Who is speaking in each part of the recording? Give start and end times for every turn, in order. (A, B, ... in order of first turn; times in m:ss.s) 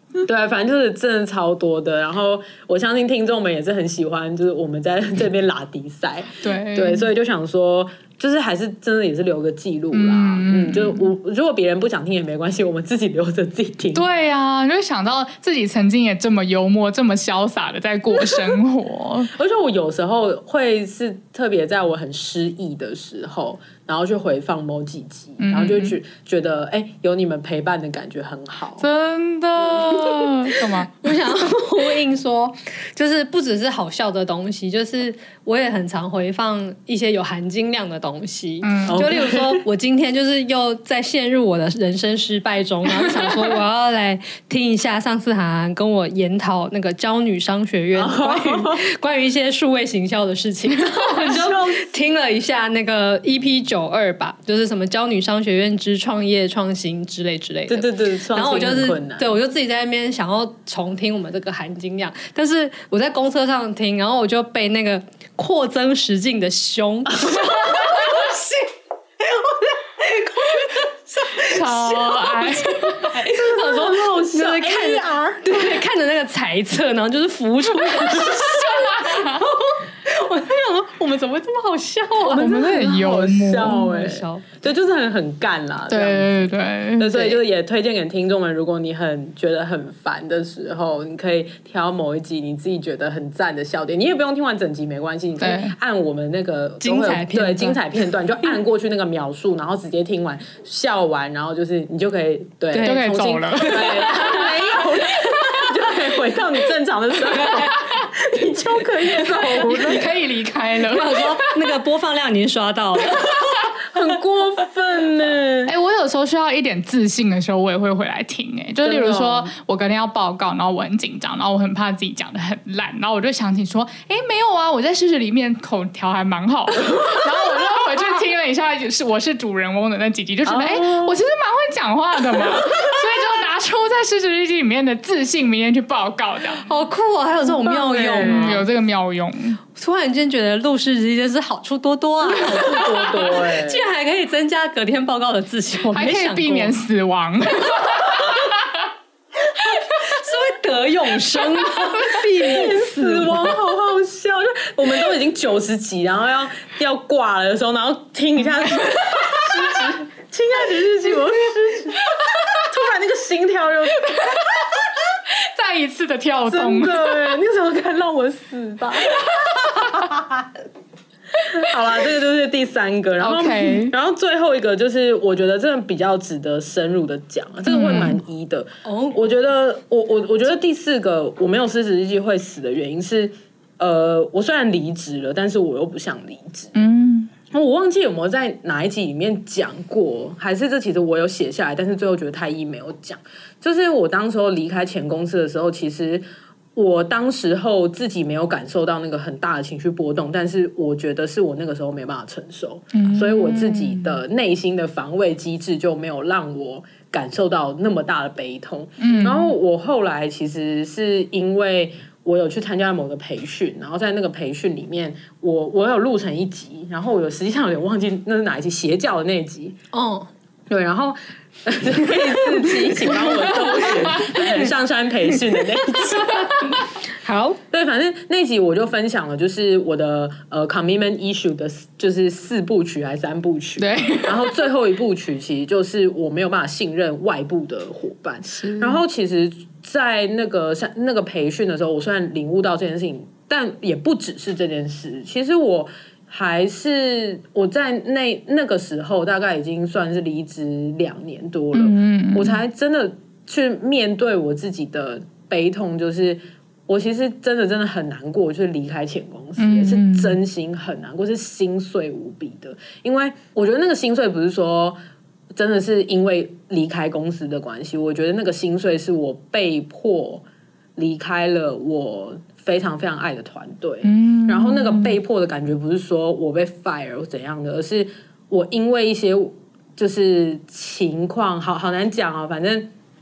0:00.2-0:14.0 A
0:06.4-0:07.1 B
0:09.9-0:11.1 B
0:13.9-0:19.3 B
0:18.2-0:18.5 A
0:19.3-0:28.8 A
0:25.4-0:26.0 B
0:28.8-0:31.0 B
0:31.0-1:08.7 C
0:38.6-0:39.1 B
0:38.9-0:39.6 A
0:47.9-0:48.8 A
0:51.2-0:51.9 A
0:57.7-0:59.3 A
1:07.2-1:07.9 A
1:09.2-1:22.4 C
1:11.4-1:13.1 B
1:13.1-1:15.8 A
1:18.0-1:19.4 B
1:22.2-1:50.1 A
1:22.3-1:23.9 B
1:23.7-1:24.5 C
1:25.9-1:27.3 B
1:35.4-1:35.7 B
1:36.8-1:37.8 C
1:42.7-1:45.6 C
1:42.8-1:44.5 B
1:47.3-1:47.7 C
1:49.5-1:51.7 B
1:50.8-1:53.5 C
1:53.8-1:55.7 A
1:55.6-2:16.6 B
1:58.8-1:59.5 A
2:10.4-2:11.2 A
2:12.4-2:12.6 A
2:16.6-2:18.6 C
2:17.6-2:18.6 A
2:18.2-2:19.6 B
2:19.7-2:26.7 C
2:22.4-2:23.8 A
2:25.9-2:28.6 B
2:29.6-2:33.5 C
2:32.4-2:44.9 A
2:45.4-2:47.3 B
2:46.4-2:50.5 A
2:51.4-3:06.8 A
2:53.2-2:53.9 B
2:57.7-2:58.2 B
2:58.8-2:59.2 C
3:06.8-3:07.3 B
3:07.5-3:16.2 A
3:16.7-3:39.8 A
3:22.9-3:24.2 B
3:29.0-3:29.5 B
3:39.9-3:40.3 C
3:40.7-3:46.7 A
3:43.9-3:44.4 B
3:47.2-3:47.6 C
3:47.7-4:25.0 A
3:53.8-3:54.5 B
3:58.5-3:59.0 B
4:11.7-4:12.6 B
4:19.6-4:20.4 B
4:25.5-4:30.4 A
4:31.0-4:42.9 A
4:34.0-4:35.2 B